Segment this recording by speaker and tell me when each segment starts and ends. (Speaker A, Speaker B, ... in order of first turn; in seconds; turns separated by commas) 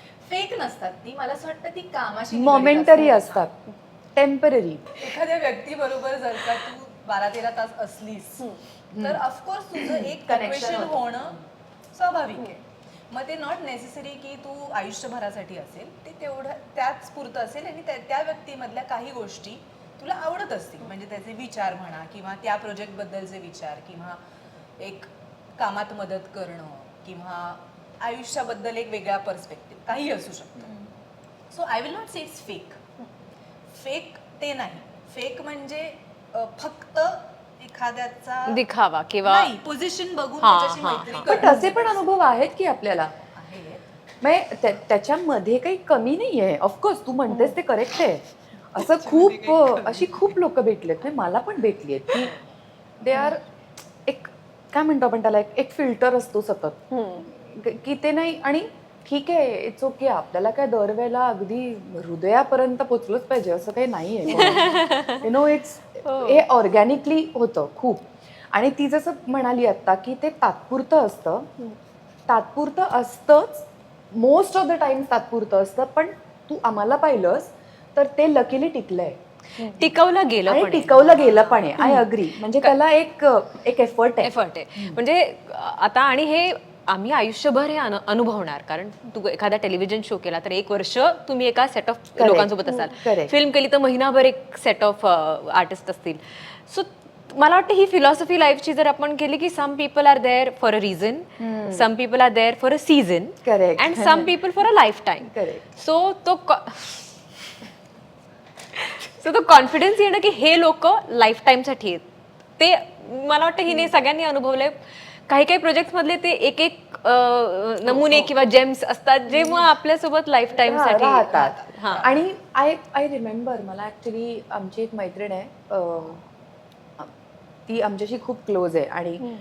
Speaker A: 0.2-3.5, Speaker B: 2.3-4.8, Speaker A: 4.9-8.5, Speaker B: 8.9-9.2, Speaker A: 9.0-11.4, Speaker B: 9.8-11.3, Speaker A: 11.9-24.2, Speaker A: 24.8-30.7, Speaker A: 31.5-32.8, Speaker A: 33.7-38.6, Speaker C: 38.5-39.5, Speaker A: 39.2-42.0, Speaker C: 40.4-41.5, Speaker B: 41.3-43.1, Speaker A: 43.3-43.8, Speaker B: 44.2-52.3, Speaker A: 48.8-50.2, Speaker B: 53.0-53.4, Speaker B: 54.1-71.5, Speaker C: 64.3-65.3, Speaker C: 66.1-66.4, Speaker B: 72.3-79.2, Speaker C: 79.6-82.0, Speaker B: 80.5-85.0, Speaker C: 84.2-107.1, Speaker B: 92.2-93.3, Speaker B: 101.4-101.9, Speaker B: 103.5-104.3, Speaker B: 105.2-105.6, Speaker C: 108.8-112.1, Speaker C: 112.6-122.1, Speaker A: 117.9-118.3, Speaker B: 120.6-126.2, Speaker A: 121.4-122.2, Speaker B: 127.7-129.3